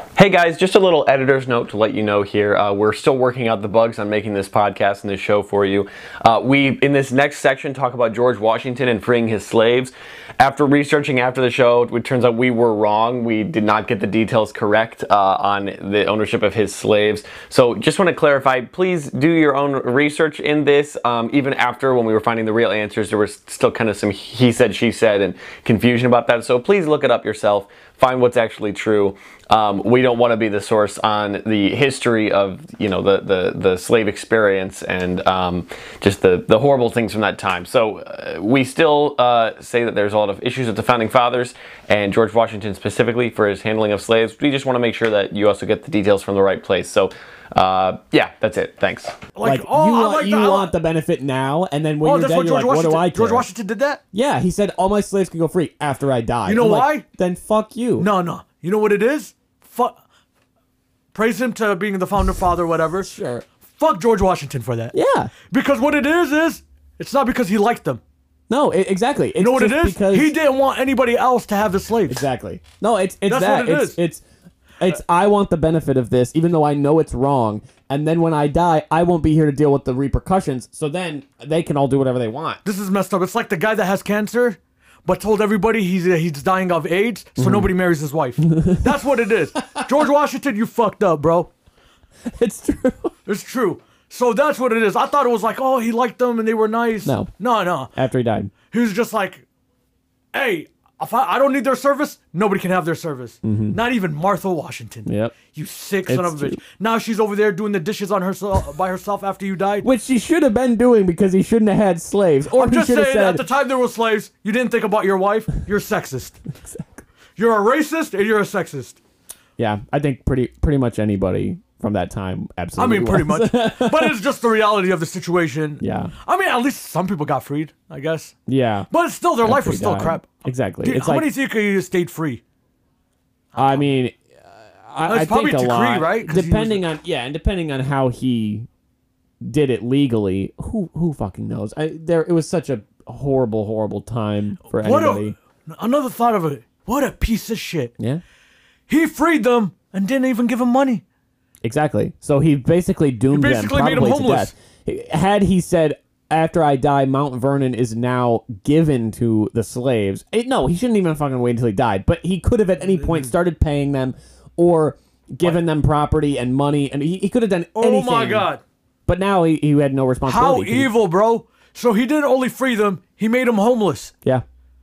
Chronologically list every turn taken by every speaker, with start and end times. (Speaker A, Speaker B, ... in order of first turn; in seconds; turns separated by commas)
Speaker A: 0.1-49.2, Speaker B: 49.3-50.8, Speaker C: 49.4-53.5, Speaker B: 52.0-54.0, Speaker C: 54.1-58.1, Speaker B: 56.5-57.0, Speaker B: 58.0-60.0, Speaker B: 61.1-63.1, Speaker C: 63.0-63.4, Speaker B: 63.6-64.9, Speaker C: 64.9-65.3, Speaker B: 65.5-68.0, Speaker C: 68.5-70.3, Speaker B: 69.4-72.3, Speaker C: 72.1-74.2, Speaker B: 73.3-74.0, Speaker C: 74.8-82.6, Speaker B: 82.6-91.5, Speaker C: 87.4-87.7, Speaker C: 88.5-89.0, Speaker C: 92.2-93.1, Speaker B: 93.3-97.9, Speaker C: 97.0-97.3, Speaker C: 97.9-98.5, Speaker B: 98.7-99.4, Speaker B: 100.3-109.8, Speaker C: 103.4-103.8, Speaker C: 105.0-105.4, Speaker C: 106.1-106.6, Speaker C: 109.8-113.4, Speaker B: 112.5-116.4, Speaker C: 116.6-117.0, Speaker B: 117.4-119.0, Speaker C: 119.6-124.2, Speaker B: 122.8-128.3, Speaker C: 125.8-126.1, Speaker C: 128.5-128.9, Speaker B: 128.9-132.4, Speaker C: 129.4-131.3, Speaker B: 133.5-133.9, Speaker C: 133.6-138.7, Speaker B: 135.1-136.8, Speaker C: 139.4-145.3, Speaker B: 144.8-147.9, Speaker B: 148.9-151.0, Speaker C: 151.6-168.5, Speaker B: 153.3-154.5, Speaker B: 162.8-163.3, Speaker B: 167.8-168.6, Speaker C: 169.1-170.9, Speaker B: 170.2-174.1